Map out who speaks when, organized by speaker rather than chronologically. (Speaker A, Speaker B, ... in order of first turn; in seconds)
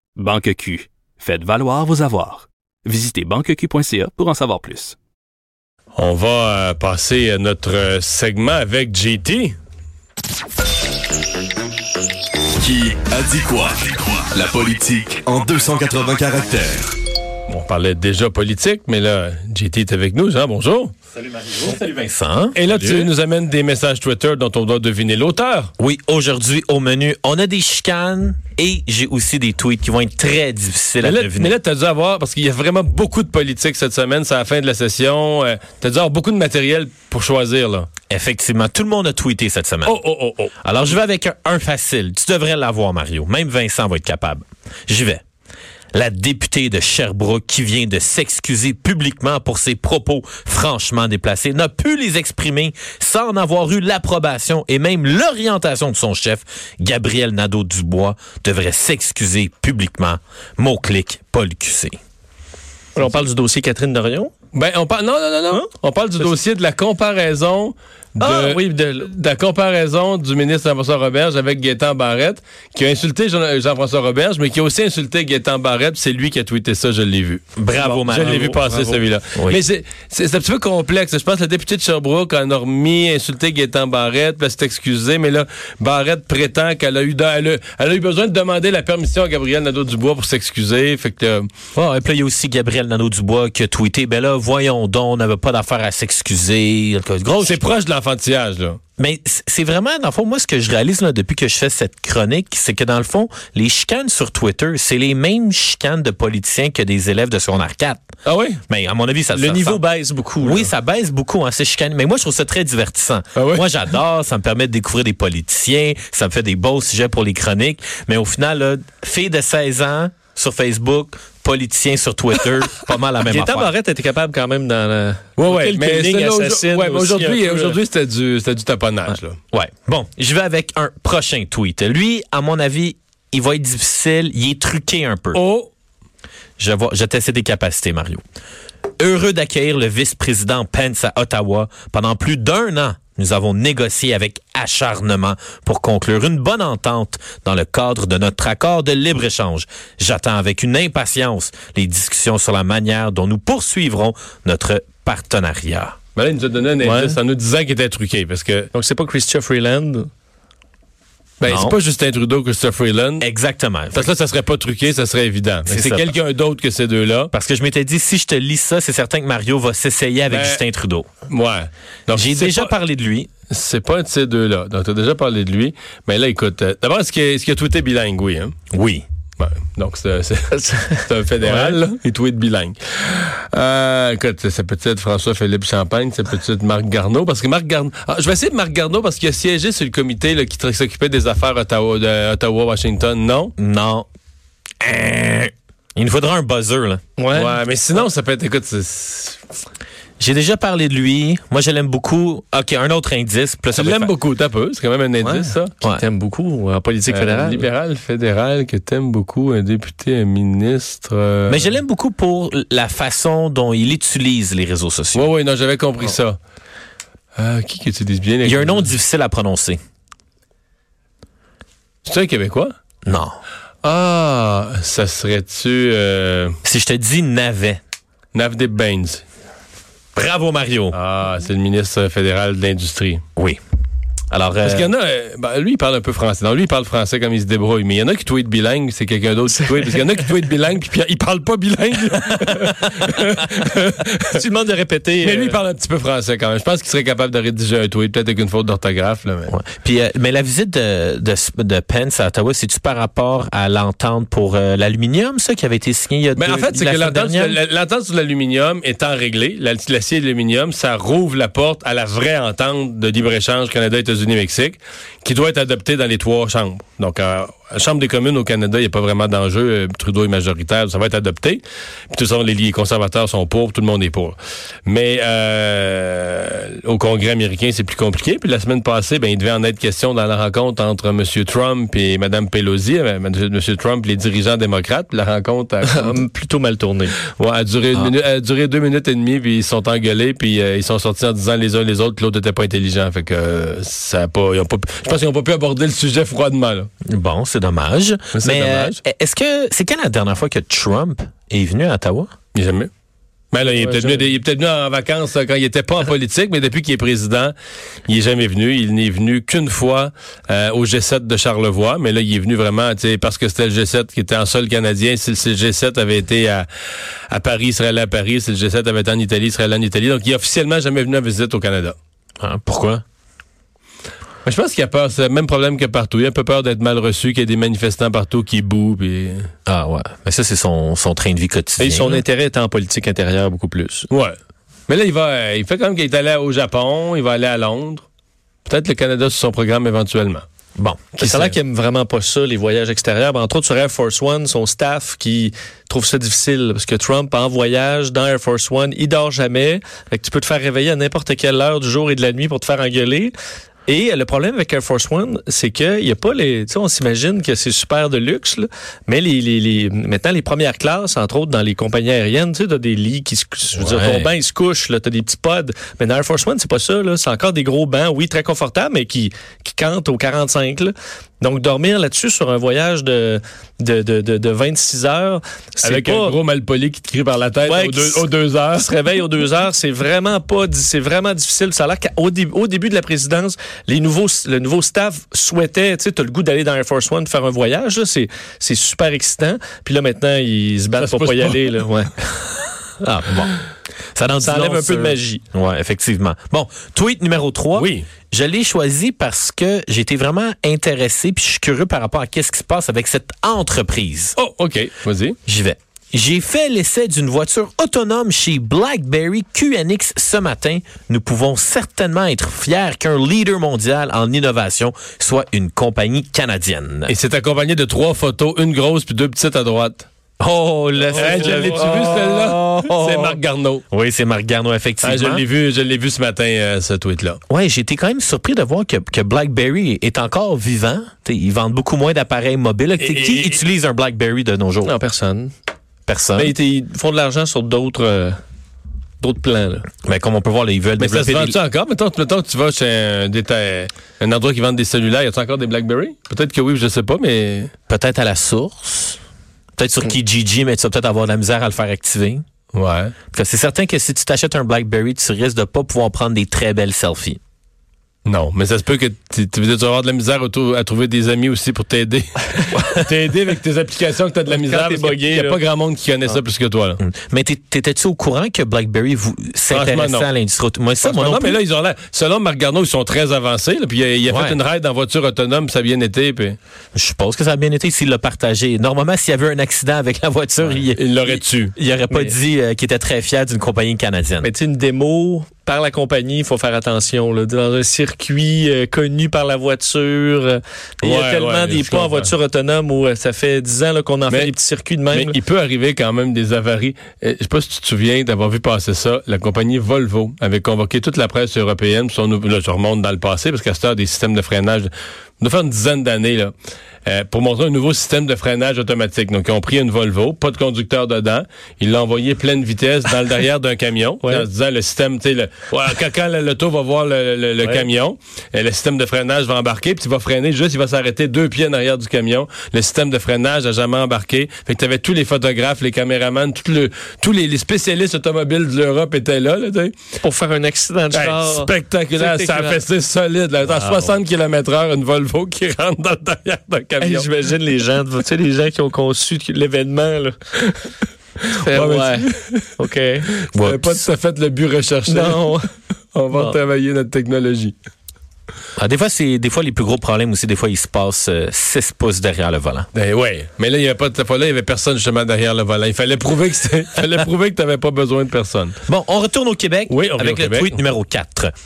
Speaker A: 0.2-5.0
Speaker B: 6.0-9.6, 17.5-20.9, 22.6-25.7, 31.0-37.9, 39.9-40.5, 64.5-91.5, 97.4-98.8, 108.2-108.6, 113.3-113.7, 125.4-129.4, 135.3-135.7, 156.2-158.7, 161.4-163.3, 163.9-167.3, 170.3-170.6, 171.3-172.7, 173.5-178.6, 179.4-193.6, 197.3-199.4, 203.7-205.8, 207.1-211.8, 215.2-216.4, 217.4-218.9, 222.1-222.7, 223.8-226.6, 228.3-229.2, 230.9-233.2, 234.6-244.4, 245.2-249.5, 256.4-286.2, 287.4-296.9, 298.3-299.0, 302.5-302.9, 303.5-307.5, 308.1-316.7, 317.3-322.0, 324.4-329.5, 334.1-334.4, 334.9-338.1, 338.7-340.4, 341.2-341.6, 375.8-379.1, 391.0-391.8, 397.8-398.1, 404.4-405.4, 417.1-420.1, 421.1-423.8, 425.0-427.4, 433.0-433.6, 441.0-447.7, 452.7-453.1, 458.2-467.0, 469.7-470.3, 471.0-476.6, 480.6-481.8, 491.0-492.3, 494.3-494.6, 495.1-506.5, 507.1-529.9, 531.1-537.3, 541.6-542.7, 543.5-545.6, 546.1-547.8, 552.9-558.8, 559.9-560.8
Speaker C: 12.6-16.9
Speaker D: 21.2-23.1, 25.8-31.6, 38.1-40.0, 40.6-45.2, 45.9-62.0, 77.6-78.5, 79.4-79.6, 91.8-97.6, 99.0-108.0, 108.7-109.8, 110.4-123.7, 129.5-135.4, 136.6-138.2, 139.0-156.0, 161.5-161.8, 163.2-164.1, 165.7-166.1, 167.3-171.1, 172.1-173.3, 178.7-179.1, 193.6-194.1, 194.8-197.0, 200.2-204.1, 211.5-215.3, 218.4-219.8, 223.1-223.4, 226.7-227.8, 230.2-231.0, 234.3-234.9, 249.5-257.6, 297.1-302.3, 322.4-323.0, 329.7-332.2, 340.8-341.1, 363.8-364.3, 393.0-393.6, 394.1-404.4, 405.5-417.1, 420.4-423.4, 423.9-425.4, 427.5-434.9, 436.1-436.5, 440.0-441.6, 447.9-449.2, 449.8-452.4, 453.3-457.4, 467.0-471.6, 474.3-474.6, 476.9-484.5, 533.6-534.1, 543.5-544.0, 548.8-552.9, 558.9-561.5
Speaker E: 63.0-64.3, 68.2-69.1, 77.8-79.0, 109.4-110.7, 123.2-127.8, 156.8-157.2, 158.8-160.1, 180.5-181.8, 197.2-197.6, 205.2-207.7, 239.7-239.9, 244.3-245.6, 285.9-287.1, 303.7-304.2, 331.8-334.1, 341.2-353.3, 353.9-376.4, 377.7-392.1, 394.4-395.4, 421.1-422.1, 434.9-435.5, 436.4-438.3, 439.2-439.9, 464.5-465.6, 484.4-495.4, 530.2-532.8, 537.0-540.4, 541.5-542.2, 542.8-543.3, 545.1-545.7, 546.3-546.6